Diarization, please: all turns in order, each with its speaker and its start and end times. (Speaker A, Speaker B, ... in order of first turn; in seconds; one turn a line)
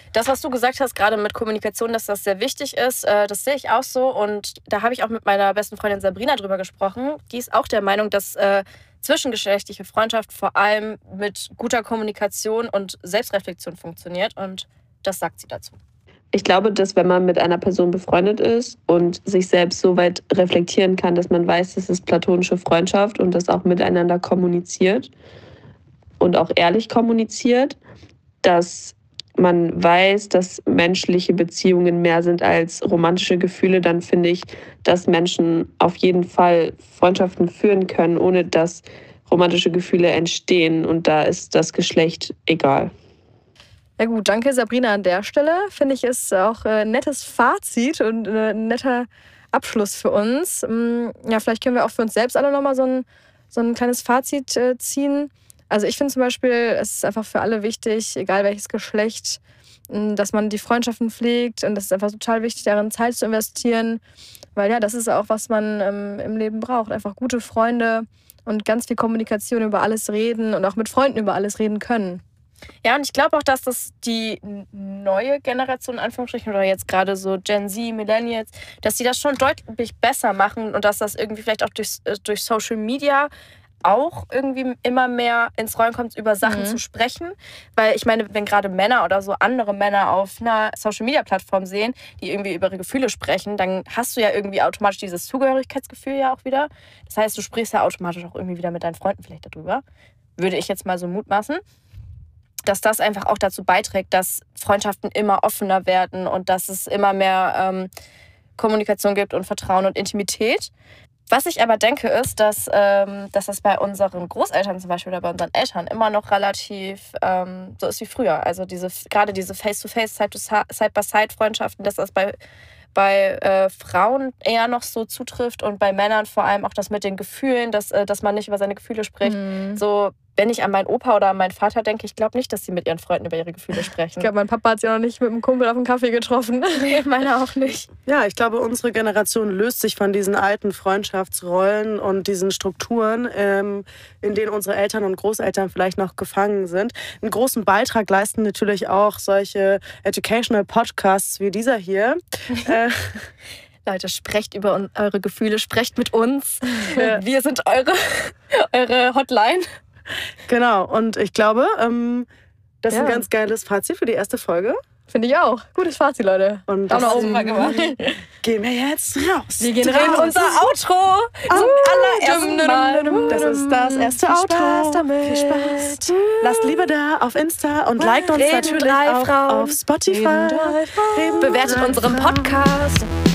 Speaker A: 0.1-15.8
Speaker B: 16.3-25.1
Speaker B: 26.2-27.8
Speaker B: 28.4-42.9
Speaker C: 44.0-64.0
Speaker C: 64.6-72.2
Speaker A: 72.8-83.3
Speaker A: 83.8-99.8
Speaker C: 86.4-86.8
Speaker A: 100.4-101.6
Speaker A: 102.7-107.9
Speaker A: 108.6-110.7
Speaker A: 111.3-122.4
Speaker A: 123.0-134.3
Speaker C: 129.2-129.8
Speaker C: 134.2-137.0
Speaker A: 136.8-137.9
Speaker D: 138.1-153.3
Speaker A: 153.9-159.7
Speaker C: 156.8-157.2
Speaker D: 160.5-162.3
Speaker D: 162.8-164.8
Speaker C: 162.9-163.2
Speaker C: 165.1-168.1
Speaker D: 166.7-170.6
Speaker A: 166.9-167.9
Speaker C: 169.6-170.5
Speaker A: 169.8-173.6
Speaker D: 171.5-172.5
Speaker C: 171.5-176.7
Speaker D: 173.2-182.4
Speaker C: 178.0-178.8
Speaker A: 178.3-179.8
Speaker C: 180.1-182.7
Speaker A: 181.4-183.1